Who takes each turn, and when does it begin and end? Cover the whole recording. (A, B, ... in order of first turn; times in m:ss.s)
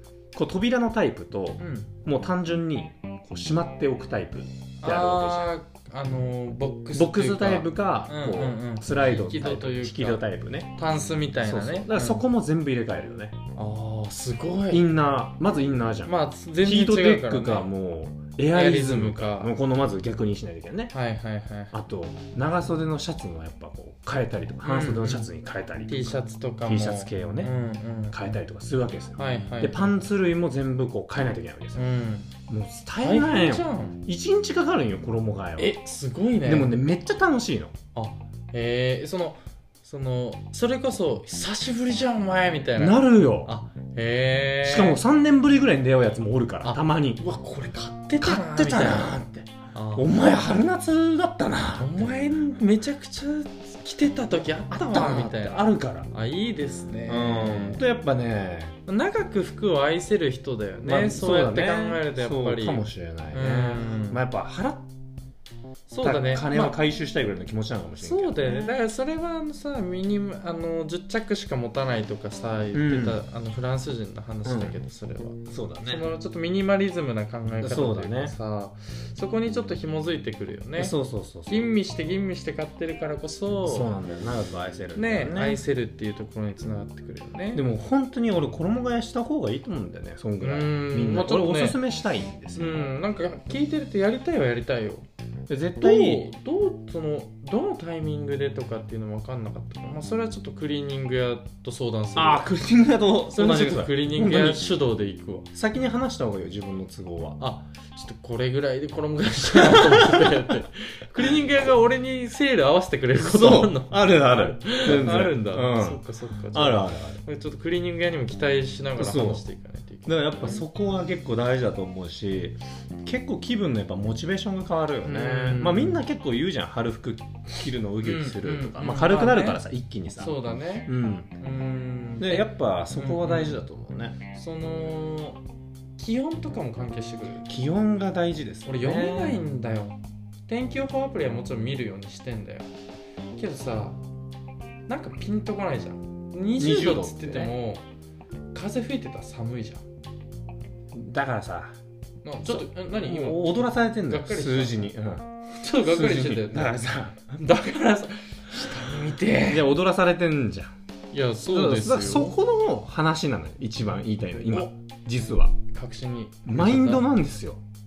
0:00.3-0:05.5 A
0:01.6-0:01.9 B
0:04.8-0:10.2 B
0:06.9-0:10.8 A
0:10.8-0:12.2 B
0:11.4-0:13.4 A
0:13.6-0:14.8 B
0:14.7-0:20.9 A
0:16.0-0:17.7 B
0:18.5-0:19.5 B
0:20.9-0:21.8 B
0:21.7-0:27.5 A
0:24.6-0:25.3 B
0:25.9-0:28.3 B
0:28.1-0:31.9 A
0:29.2-0:30.1 B
0:31.8-0:32.3 B
0:32.5-0:35.8 A
0:33.0-0:34.0 B
0:35.6-0:36.8 B
0:36.4-0:37.8 A
0:38.0-0:45.0 B
0:42.8-0:43.5 A
0:44.6-0:47.2 A
0:46.6-0:49.2 B
0:48.2-0:52.2 A
0:49.7-0:50.1 B
0:51.8-0:57.8 B
0:54.7-0:56.1 A
0:57.1-0:58.8 A
0:58.9-1:04.2 B
1:00.8-1:04.9 A
1:05.9-1:06.8 B
1:06.0-1:08.8 A
1:08.0-1:20.9 B
1:12.7-1:13.2 A
1:14.4-1:14.8 A
1:15.5-1:16.0 A
1:17.6-1:18.4 A
1:20.8-1:21.6 A
1:21.5-1:23.9 B
1:23.6-1:25.6 A
1:25.0-1:27.6 B
1:27.6-1:32.8 A
1:30.4-1:31.8 B
1:32.6-1:35.1 B
1:35.5-1:36.3 A
1:35.8-1:42.5 B
1:42.2-1:44.7 A
1:43.3-1:45.5 B
1:45.5-1:47.4 A
1:47.4-2:00.6 B
1:49.5-1:50.5 A
1:53.2-1:56.0 A
1:56.5-1:57.2 A
1:59.0-1:59.4 A
2:00.1-2:11.3 A
2:05.0-2:06.0 B
2:08.0-2:09.6 B
2:10.2-2:13.6 B
2:12.2-2:14.2 A
2:14.3-2:15.4 B
2:16.0-2:17.5 B
2:17.5-2:19.4 A
2:18.7-2:22.7 B
2:23.4-2:24.0 B
2:24.9-2:27.8 B
2:26.6-2:27.5 A
2:28.5-2:29.8 B
2:30.9-2:31.8 A
2:32.2-2:34.9 B
2:32.5-2:35.3 A
2:35.5-2:39.7 B
2:35.8-2:37.4 A
2:39.4-2:40.7 A
2:41.1-2:42.4 B
2:41.5-2:45.6 A
2:45.7-2:47.1 B
2:46.5-2:47.6 A